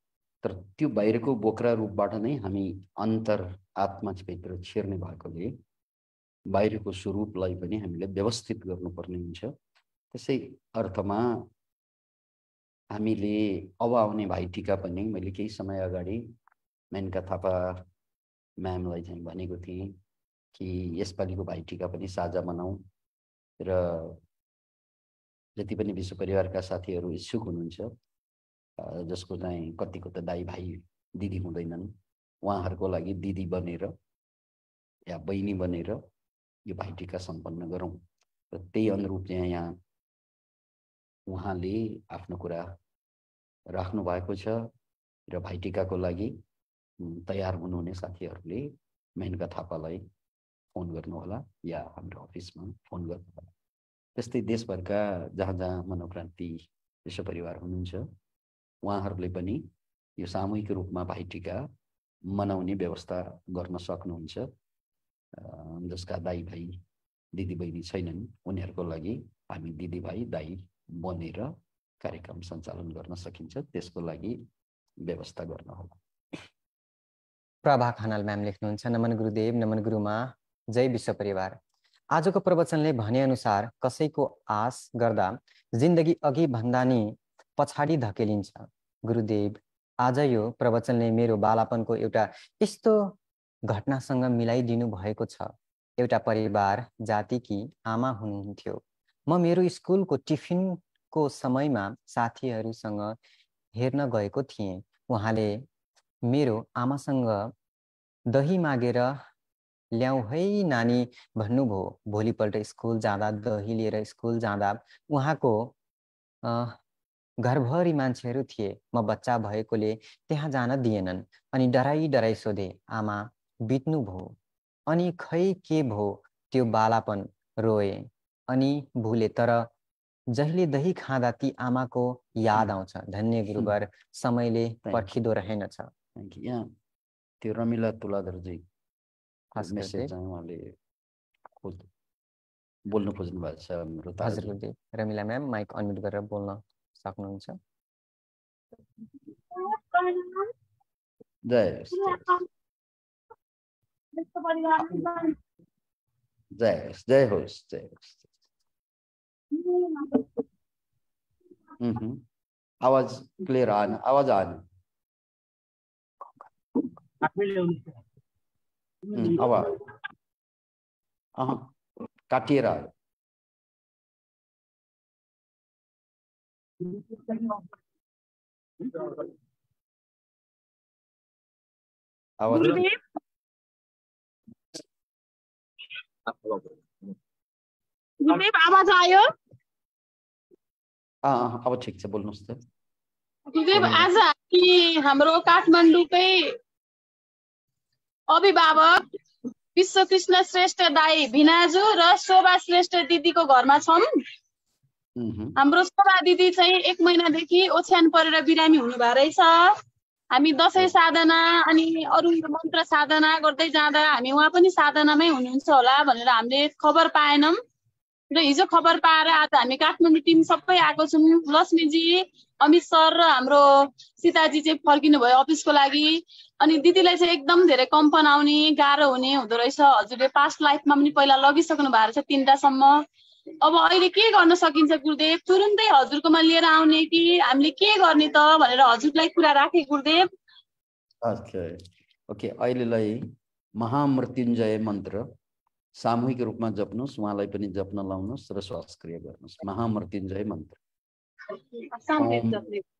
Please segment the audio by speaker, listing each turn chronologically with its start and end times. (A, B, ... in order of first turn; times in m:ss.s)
0:00.4-0:05.6 A
0:06.5-0:09.5 A
0:10.1-0:11.5 A
0:12.9-0:16.2 A
0:16.9-0:17.8 A
0:18.6-0:20.0 A
0:20.5-0:22.8 A
0:23.6-0:24.2 A
0:25.6-0:27.9 A
0:28.8-0:34.0 A
0:35.1-0:36.0 A
0:36.7-0:39.8 A
0:41.3-0:42.8 A
0:43.7-0:44.7 A
0:45.3-0:46.4 A
0:47.0-0:50.0 A
0:50.7-0:53.5 A
0:54.2-0:58.1 A
0:58.8-1:01.7 A
1:02.3-1:04.5 A
1:05.3-1:06.8 A
1:07.3-1:14.4 A
1:15.0-1:16.0 A
1:17.6-1:21.6 B
1:22.1-1:43.2 B
1:43.7-1:45.6 B
1:46.2-1:47.5 B
1:48.3-1:49.2 B
1:49.9-1:55.7 B
1:56.4-1:56.8 B
1:57.4-2:04.3 B
2:04.9-2:09.7 B
2:10.3-2:15.9 B
2:14.9-2:15.1 A
2:16.2-2:16.7 A
2:17.4-2:18.6 A
2:19.6-2:20.1 B
2:19.6-2:20.8 A
2:21.6-2:21.9 A
2:22.9-2:24.6 A
2:24.2-2:27.6 B
2:29.6-2:30.5 C
2:31.5-2:32.4 A
2:34.2-2:35.4 C
2:36.6-2:38.3 A
2:39.6-2:40.2 C
2:41.8-2:42.2 A
2:42.8-2:44.6 A
2:49.1-2:49.8 A
2:51.4-2:51.7 A
2:52.3-2:52.9 A
3:02.4-3:02.8 A
3:02.5-3:02.9 C
3:08.2-3:09.3 C
3:11.2-3:12.6 A
3:13.5-3:16.6 C
3:13.8-3:14.0 A
3:18.3-3:19.0 C
3:19.7-3:24.2 C
3:25.2-3:25.6 A
3:25.6-3:29.8 C
3:30.3-3:37.6 C
3:38.3-3:43.6 C
3:44.2-3:53.0 C
3:53.6-4:00.3 C
4:01.2-4:05.3 A
4:06.0-4:10.8 A
4:11.6-4:12.8 C
4:12.2-4:12.6 A